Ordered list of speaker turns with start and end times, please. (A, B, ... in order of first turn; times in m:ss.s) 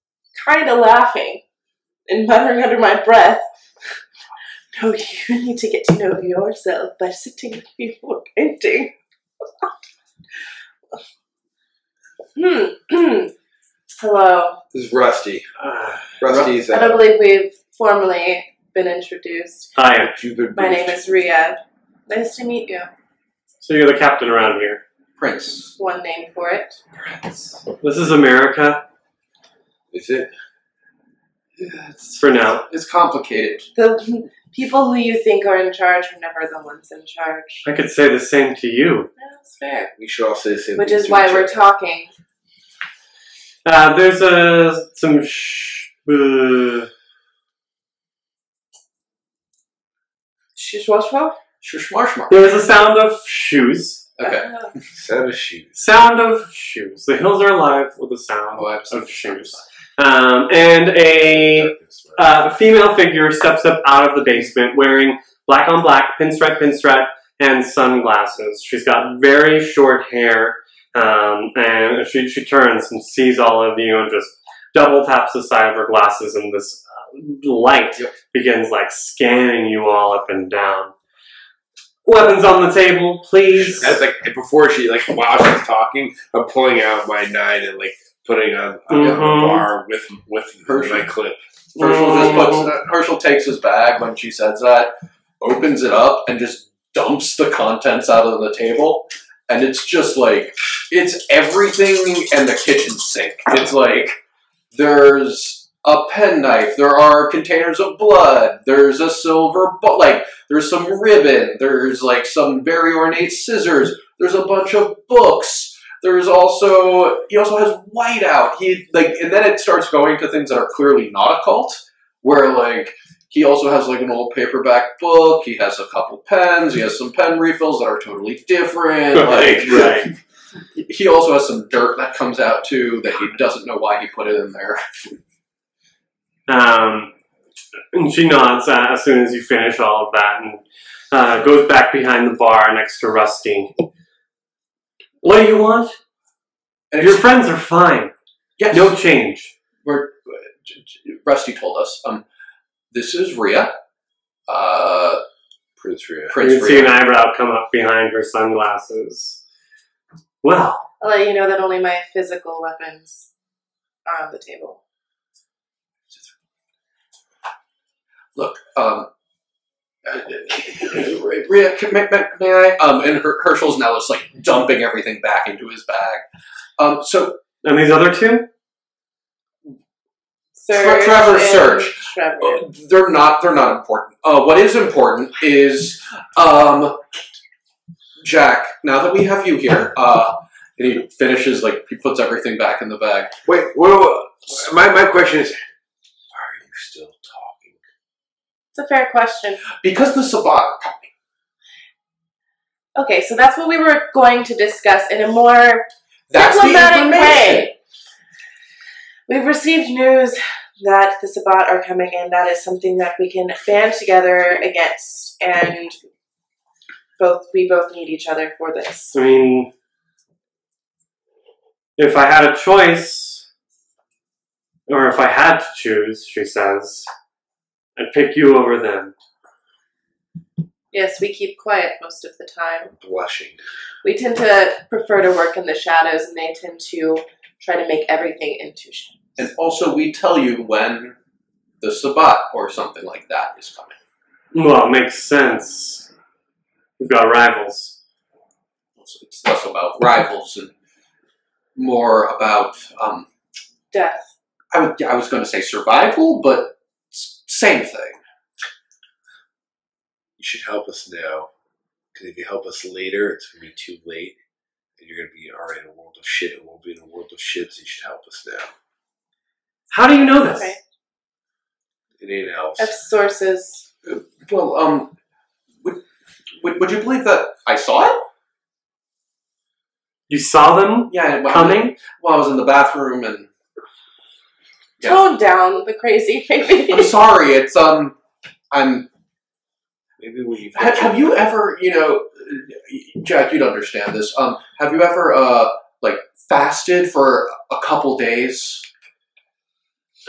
0:00.4-0:01.4 A
0:02.1-0:03.5 A
0:04.7-0:08.9 A
0:12.4-0:13.3 A
0:14.0-0:14.6 A
0:14.7-0:15.5 B
0:15.6-0:16.1 C
0:16.2-0:17.0 B
0:16.2-0:16.6 D
0:16.7-0:19.7 A
0:19.8-0:20.2 C
0:20.0-0:21.0 B
0:20.5-0:22.9 A
0:23.6-0:24.8 C
0:25.2-0:25.7 D
0:25.8-0:26.8 A
0:27.7-0:28.8 C
0:29.9-0:30.3 B
0:31.6-0:33.7 D
0:32.2-0:32.7 C
0:33.8-0:37.6 A
0:37.6-0:39.1 C
0:39.2-0:40.0 A
0:40.0-0:41.6 B
0:40.8-0:42.1 A
0:43.6-0:46.9 C
0:50.6-0:51.4 A
0:51.6-0:52.5 D
0:52.3-0:54.0 C
0:54.2-0:54.6 D
0:54.2-0:54.7 A
0:54.9-0:55.8 B
0:55.8-1:20.9 C
0:58.5-0:59.6 D
1:01.3-1:02.3 B
1:22.0-1:24.0 C
1:23.6-1:31.4 B
1:28.9-1:29.7 C
1:30.7-1:31.1 D
1:31.8-1:44.2 D
1:31.8-1:32.7 C
1:44.7-2:10.1 D
2:09.1-2:10.1 C
2:10.8-2:15.1 D
2:16.5-2:17.1 C
2:17.9-2:23.8 C
2:25.2-2:26.0 C
2:26.9-2:27.2 D
2:27.0-2:28.1 C
2:28.6-2:29.0 D
2:28.7-2:29.5 C
2:29.8-2:32.2 D
2:32.9-2:33.8 D
2:34.5-2:35.2 D
2:35.8-2:36.4 B
2:36.3-2:37.0 D
2:36.4-2:39.4 C
2:40.4-2:40.9 C
2:41.0-2:43.3 A
2:44.1-2:44.8 A
2:48.4-2:49.1 D
2:50.0-2:56.2 D
2:56.8-2:57.4 D
2:57.6-2:58.5 C
3:00.6-3:02.7 A
3:00.7-3:07.0 D
3:08.2-3:13.4 D
3:13.5-3:15.6 B
3:16.3-3:17.8 B
3:18.8-3:19.6 A
3:19.6-3:21.1 D
3:23.0-3:27.7 A
3:26.3-3:27.7 D
3:29.3-3:36.0 A
3:37.2-3:39.2 A
3:39.1-3:39.7 C
3:42.0-3:43.5 C
3:44.9-3:47.1 C
3:48.0-3:49.1 C
3:50.9-3:52.9 A
3:52.9-3:53.6 B
3:54.0-3:59.2 A
3:59.4-4:01.2 D
4:01.8-4:04.0 D
4:04.5-4:06.1 C
4:07.0-4:08.0 C
4:09.0-4:10.7 D
4:11.8-4:13.3 D
4:13.9-4:14.3 A
4:14.7-4:18.2 D
4:20.4-4:21.5 B
4:22.1-4:24.4 B
4:25.0-4:28.7 B
4:29.9-4:30.8 C
4:30.5-4:30.8 A
4:32.2-4:32.9 B
4:32.8-4:33.8 A
4:34.0-4:35.1 D
4:36.6-4:38.3 D
4:40.3-4:42.0 C
4:41.1-4:43.5 D
4:45.0-4:47.1 A
4:46.9-4:48.2 D
4:48.7-4:49.1 D
4:50.2-4:51.4 B
4:50.8-4:58.9 D